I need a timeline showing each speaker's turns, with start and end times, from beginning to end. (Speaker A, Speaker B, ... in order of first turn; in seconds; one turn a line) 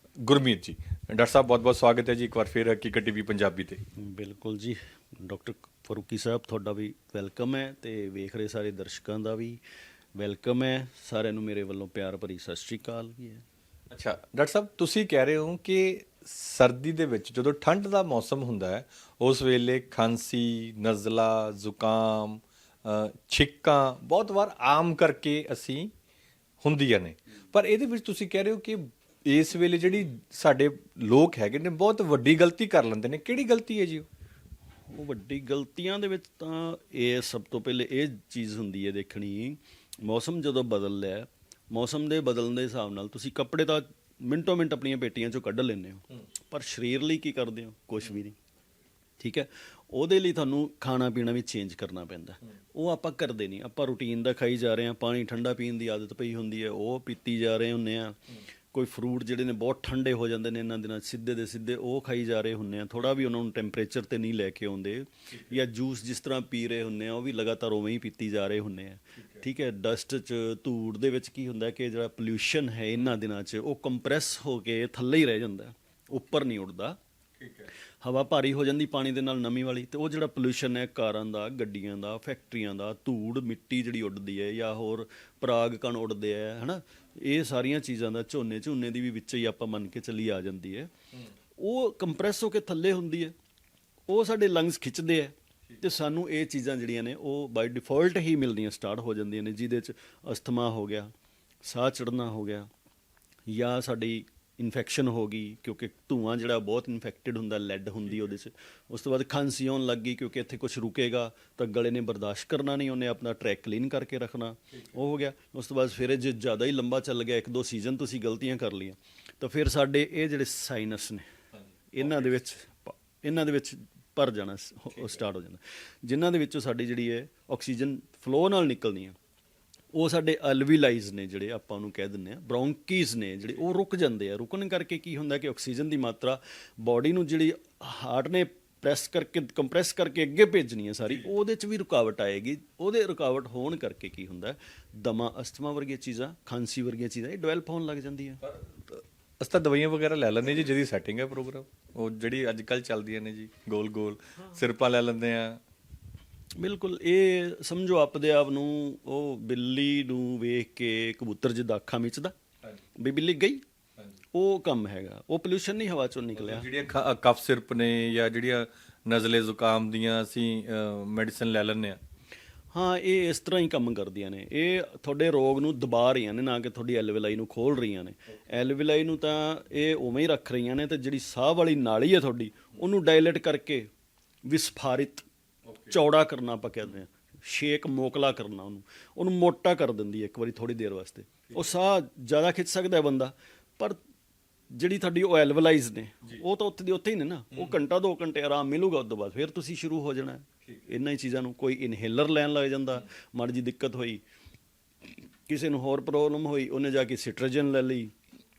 Speaker A: 0.2-3.8
Speaker B: 4.0-9.6
Speaker B: 10.2-13.4
Speaker A: 13.9-25.9
Speaker A: 26.6-34.1
Speaker B: 34.9-48.4
Speaker B: 49.2-58.2
Speaker B: 58.7-77.0
Speaker A: 65.3-65.6
Speaker A: 77.4-77.7
Speaker B: 78.0-90.9
Speaker B: 91.6-93.3
Speaker B: 94.1-101.1
Speaker B: 101.6-102.7
Speaker B: 103.5-121.2
Speaker B: 121.9-129.2
Speaker A: 122.0-122.4
Speaker B: 129.9-148.4
Speaker A: 148.4-155.6
Speaker B: 156.6-162.3
Speaker B: 163.0-163.6
Speaker B: 164.3-166.7
Speaker A: 166.4-172.0
Speaker B: 172.7-183.9
Speaker B: 184.5-185.2
Speaker B: 185.9-194.0
Speaker A: 191.5-191.7
Speaker B: 194.7-204.2
Speaker B: 205.5-208.1